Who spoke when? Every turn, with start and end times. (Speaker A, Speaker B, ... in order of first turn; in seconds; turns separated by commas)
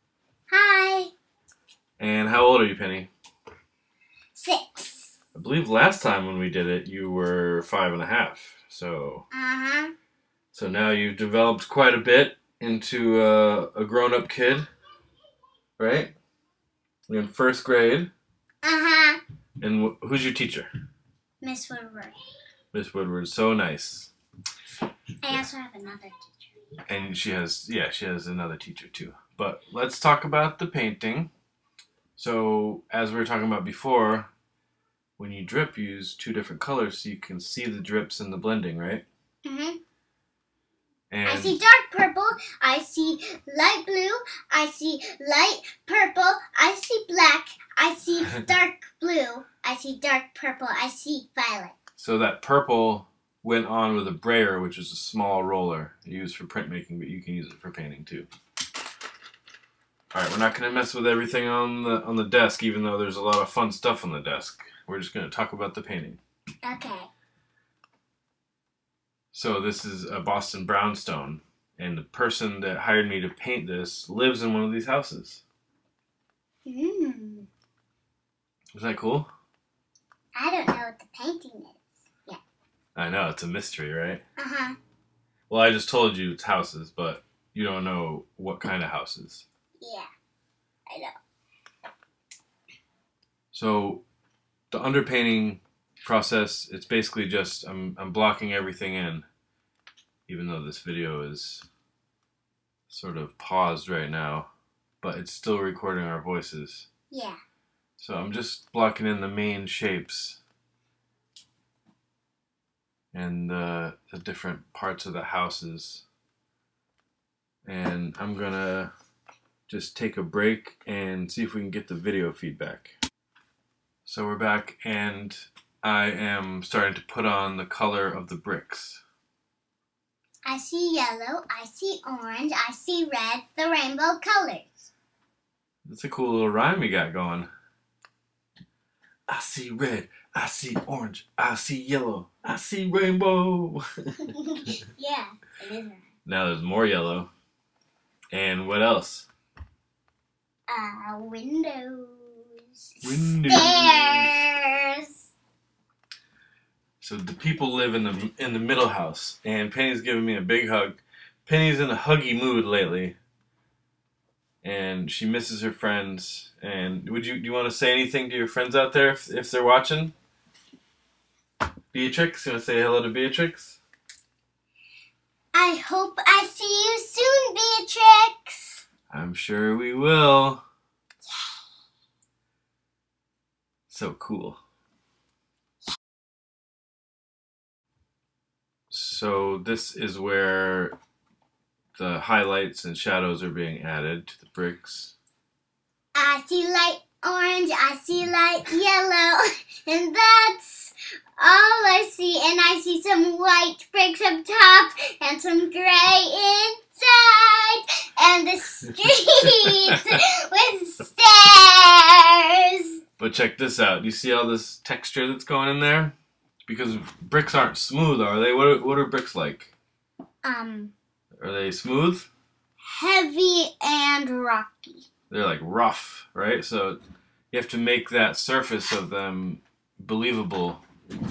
Speaker A: 0.5-1.1, Speaker B: 2.0-3.1, Speaker A: 4.3-5.2, Speaker B: 5.3-9.3, Speaker A: 9.3-9.9, Speaker B: 10.5-14.7, Speaker B: 15.8-16.1, Speaker B: 17.1-18.1, Speaker A: 18.6-19.2, Speaker B: 19.6-20.7, Speaker A: 21.4-22.2, Speaker B: 22.7-24.1, Speaker A: 25.2-26.5, Speaker B: 26.9-31.3, Speaker B: 32.2-34.3, Speaker B: 35.2-39.0, Speaker A: 39.5-39.8, Speaker B: 41.1-41.6, Speaker A: 41.3-51.8, Speaker B: 52.0-58.3, Speaker B: 60.1-66.2, Speaker A: 66.6-67.1, Speaker B: 69.3-75.4, Speaker A: 76.7-77.5, Speaker B: 78.8-79.3, Speaker A: 80.3-82.4, Speaker B: 83.0-84.2, Speaker A: 84.4-84.8, Speaker B: 85.5-89.5, Speaker A: 89.8-90.1, Speaker A: 90.9-91.1, Speaker B: 93.5-94.0, Speaker B: 94.7-99.3, Speaker B: 100.3-101.7, Speaker B: 102.9-104.5, Speaker B: 105.0-106.9, Speaker A: 107.1-107.4, Speaker B: 108.0-110.4, Speaker B: 113.1-116.0, Speaker B: 117.7-118.9, Speaker B: 119.7-123.0, Speaker B: 124.0-129.0, Speaker A: 130.4-134.9, Speaker B: 135.8-137.5, Speaker B: 139.3-143.8, Speaker A: 144.3-146.1, Speaker B: 146.3-147.3, Speaker B: 148.3-149.3, Speaker A: 150.7-155.1, Speaker B: 153.0-154.4, Speaker B: 157.0-163.2, Speaker B: 164.6-170.1, Speaker B: 171.9-173.8, Speaker A: 175.5-178.8, Speaker B: 179.1-180.6, Speaker B: 183.9-184.6, Speaker B: 188.9-191.0, Speaker B: 192.0-195.2, Speaker A: 196.1-212.9, Speaker B: 209.7-209.9, Speaker B: 213.2-219.7, Speaker A: 220.4-220.9, Speaker B: 221.4-222.3, Speaker A: 222.9-225.1, Speaker B: 225.3-227.0, Speaker B: 227.5-230.8